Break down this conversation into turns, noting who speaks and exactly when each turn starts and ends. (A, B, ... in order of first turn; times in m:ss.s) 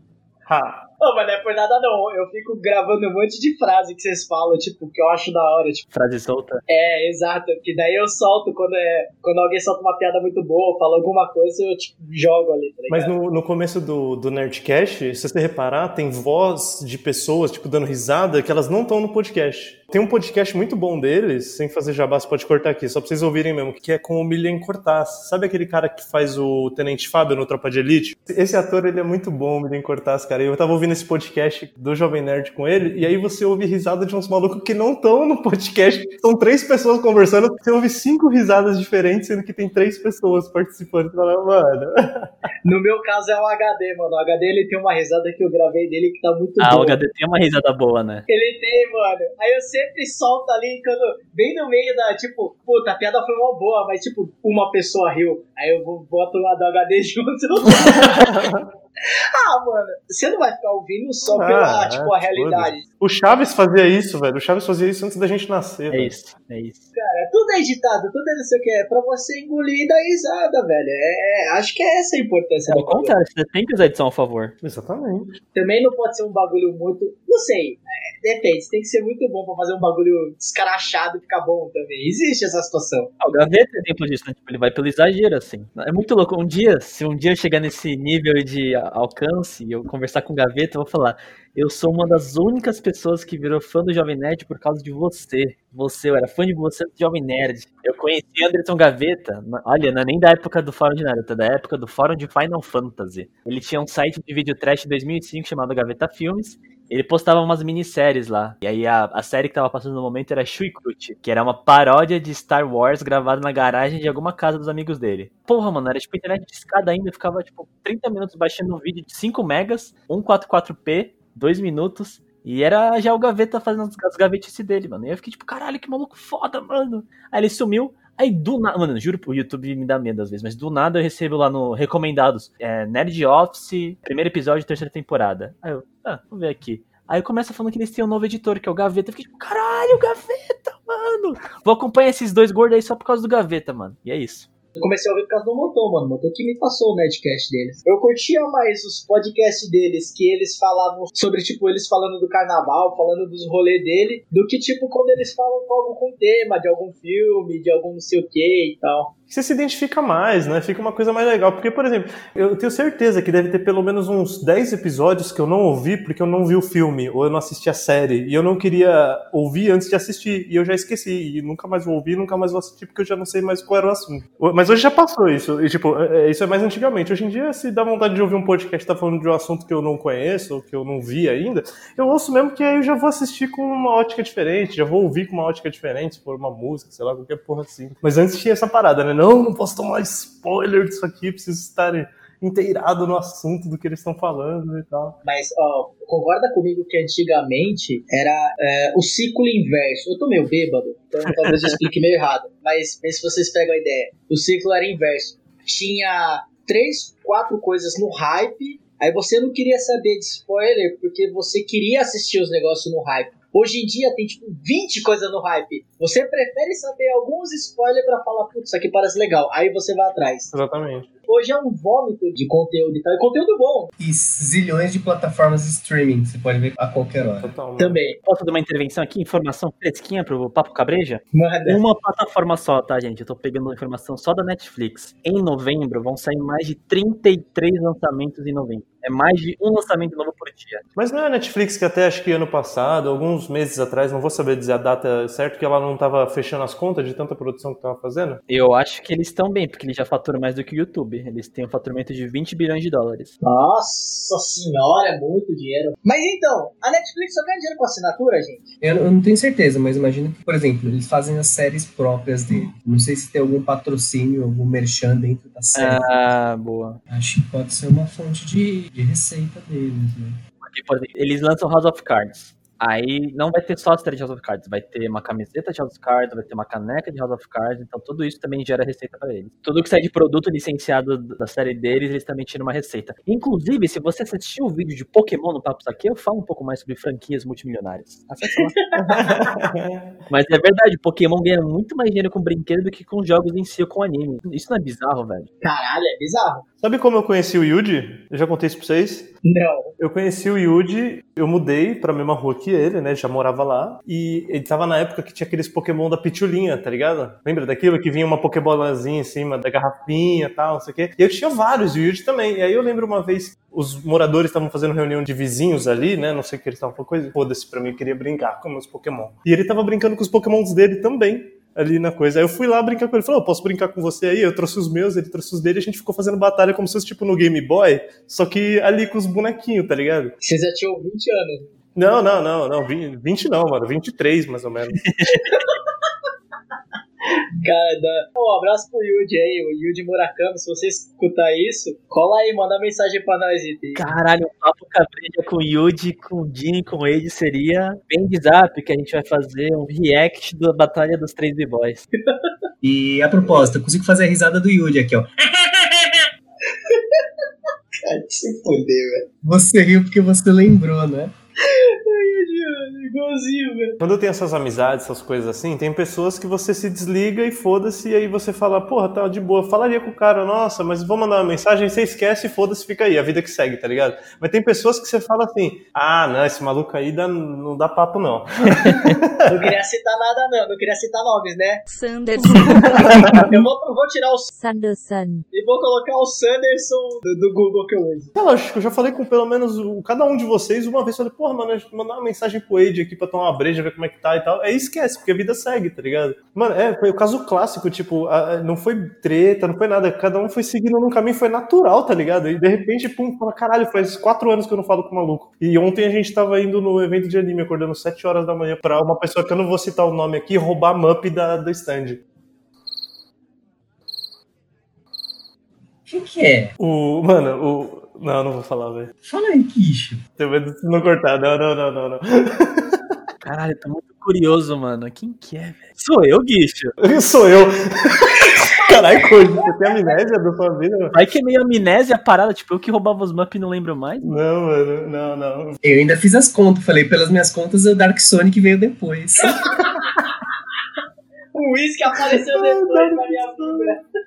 0:00.5-0:00.8 A
0:01.0-0:05.8 B
0:05.9-0:06.6 C
0:06.7-0:13.1 B
0:12.9-0:42.3 A
0:42.6-0:47.0 B
0:46.6-0:48.2 C
0:48.3-0:58.3 B
0:57.8-0:58.7 A
0:59.0-1:02.8 B
1:01.2-1:06.1 A
1:05.9-1:06.9 C
1:06.9-1:13.1 B
1:12.7-1:14.6 C
1:14.6-1:15.4 A
1:15.5-1:23.1 B
1:23.2-2:24.5 C
2:24.8-2:39.1 B
2:39.3-3:15.2 A
3:15.2-3:40.5 B
3:40.5-3:41.1 A
3:41.3-3:43.9 B
3:44.0-3:47.5 D
3:47.4-3:48.0 A
3:47.8-3:48.2 B
3:48.2-4:00.8 C
3:51.3-3:51.8 B
4:01.0-4:08.4 A
4:08.5-4:13.3 C
4:13.4-4:18.7 B
4:18.8-4:26.0 D
4:25.7-4:27.0 C
4:27.1-4:30.4 D
4:30.6-4:48.8 C
4:48.6-4:49.2 B
4:49.0-4:50.1 A
4:50.3-4:55.5 C
4:55.6-4:56.6 B
4:56.8-4:59.3 A
4:59.4-4:59.9 B
5:00.0-5:30.3 A
5:30.4-5:31.7 B
5:31.9-5:35.0 A
5:35.0-5:35.4 C
5:35.5-5:35.7 B
5:37.6-5:44.1 B
5:43.9-5:52.0 C
5:52.8-5:56.3 D
5:56.8-5:57.2 B
5:58.0-5:59.2 B
5:59.4-6:01.3 D
6:01.6-6:04.0 B
6:04.0-6:19.7 A
6:18.7-6:19.1 C
6:19.5-6:21.8 B
6:21.9-6:23.1 E
6:22.6-6:23.4 C
6:22.8-6:23.4 A
6:23.2-6:24.5 B
6:24.5-6:25.4 E
6:25.5-6:28.3 B
6:28.4-6:52.2 A
6:56.0-6:56.7 D
6:56.8-6:59.1 A
6:59.2-7:00.2 D
7:00.4-7:03.0 A
7:03.4-7:06.9 C
7:07.0-7:11.2 A
7:08.8-7:09.7 B
7:11.1-7:14.3 C
7:14.2-7:15.8 A
7:15.8-7:19.6 D
7:19.7-7:20.0 A
7:21.5-7:24.0 B
7:22.5-7:24.0 A